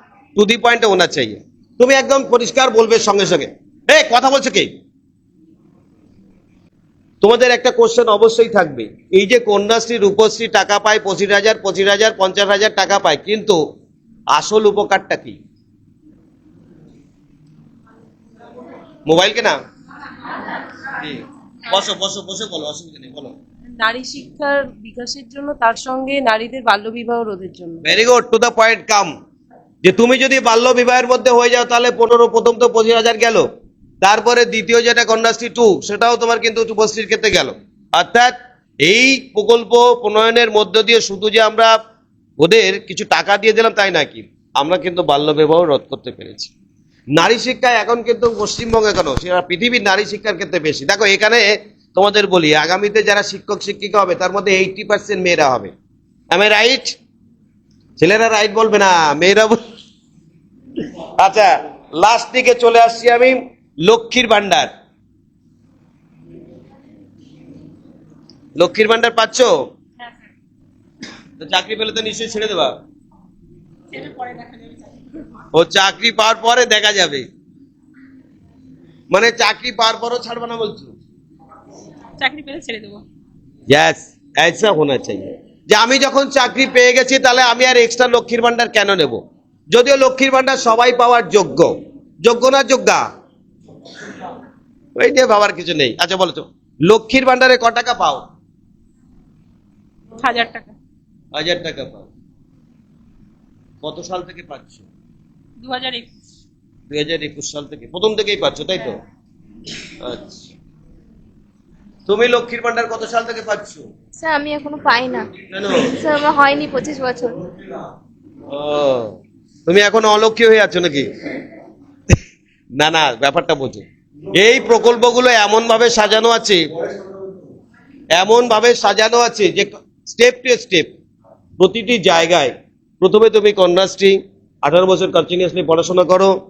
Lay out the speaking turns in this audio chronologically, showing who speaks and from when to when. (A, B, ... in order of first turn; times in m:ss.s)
0:00.4-0:04.7 A
0:07.2-0:13.6 A
0:14.3-0:15.4 A
0:19.0-0:19.6 A
0:21.0-0:23.3 A
0:23.8-0:27.8 B
0:27.8-0:29.1 A
0:29.8-0:33.5 A
0:34.0-0:41.7 A
0:42.4-0:46.5 A
0:47.2-0:55.7 A
0:56.3-0:57.0 A
0:58.0-0:59.6 A
1:01.2-1:04.7 A
1:08.6-1:09.5 A
1:11.4-1:12.7 A
1:13.9-1:15.1 C
1:15.5-1:17.3 A
1:19.1-1:20.9 A
1:22.2-1:23.0 C
1:23.7-1:33.0 A
1:35.0-1:38.2 A
1:40.2-1:40.7 C
1:41.3-1:42.1 A
1:43.8-1:44.8 A
1:45.6-1:46.1 C
1:46.9-1:49.0 A
1:50.0-1:50.5 A
1:52.1-1:53.8 A
1:54.2-1:57.4 D
1:55.5-1:55.9 A
1:58.5-2:01.1 A
2:02.8-2:06.6 A
2:08.1-2:10.9 A
2:11.6-2:16.3 A